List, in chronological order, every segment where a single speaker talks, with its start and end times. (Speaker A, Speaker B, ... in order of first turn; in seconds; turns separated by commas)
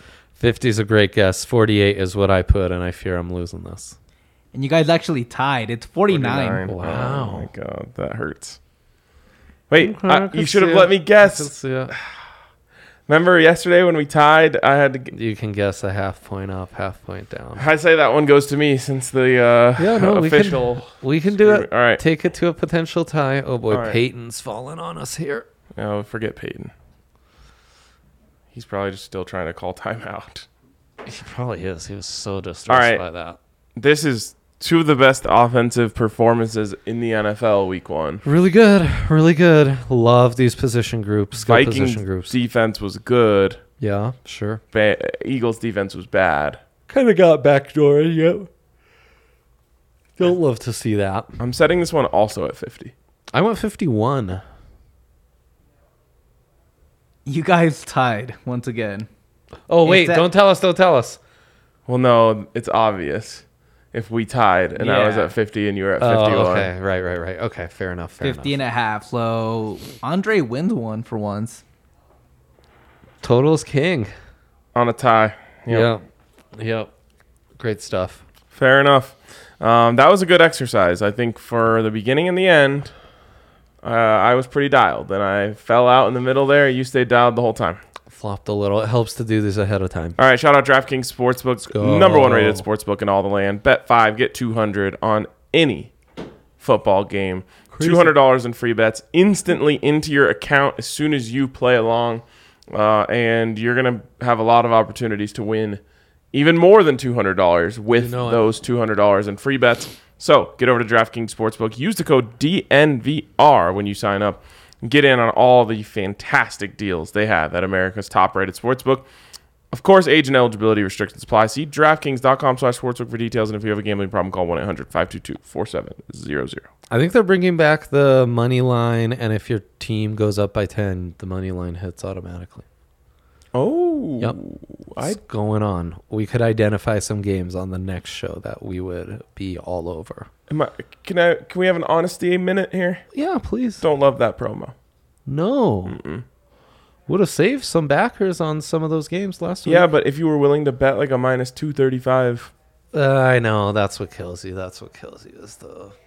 Speaker A: 0.4-4.0, Speaker B: 4.5-6.6, Speaker C: 6.1-8.6, Speaker A: 6.7-7.5, Speaker C: 9.7-12.2, Speaker A: 9.8-11.9, Speaker C: 13.1-15.1, Speaker A: 15.1-17.6, Speaker C: 17.6-22.0, Speaker A: 19.8-25.4, Speaker C: 23.7-24.0, Speaker C: 25.8-26.7, Speaker C: 28.5-30.5, Speaker A: 31.0-33.4, Speaker C: 32.7-33.0, Speaker C: 33.8-38.2, Speaker A: 38.2-42.3, Speaker C: 41.4-43.6, Speaker A: 43.8-44.6, Speaker C: 44.7-46.6, Speaker A: 46.9-48.5, Speaker A: 50.2-51.3, Speaker C: 51.4-52.9, Speaker A: 53.3-54.4, Speaker B: 57.2-59.1, Speaker A: 59.7-61.2, Speaker B: 59.8-60.2, Speaker C: 61.9-66.7, Speaker B: 64.8-65.3, Speaker A: 66.0-68.5, Speaker B: 68.2-71.6, Speaker A: 73.2-74.1, Speaker C: 74.7-75.9, Speaker A: 75.7-76.0, Speaker A: 76.5-76.9, Speaker A: 77.6-78.2, Speaker C: 78.5-82.9, Speaker C: 83.8-87.8, Speaker A: 88.1-90.2, Speaker C: 90.2-95.9, Speaker A: 91.6-92.6, Speaker C: 96.6-105.8, Speaker A: 97.7-98.1, Speaker C: 106.3-119.1, Speaker A: 108.0-108.5, Speaker C: 119.7-126.7, Speaker A: 126.9-132.6, Speaker C: 133.5-135.2, Speaker A: 135.0-140.3, Speaker C: 140.5-143.0, Speaker A: 143.1-143.8, Speaker C: 143.8-144.7, Speaker A: 145.2-146.0, Speaker C: 145.8-146.2, Speaker A: 147.1-149.9, Speaker C: 149.6-152.5, Speaker A: 152.9-155.9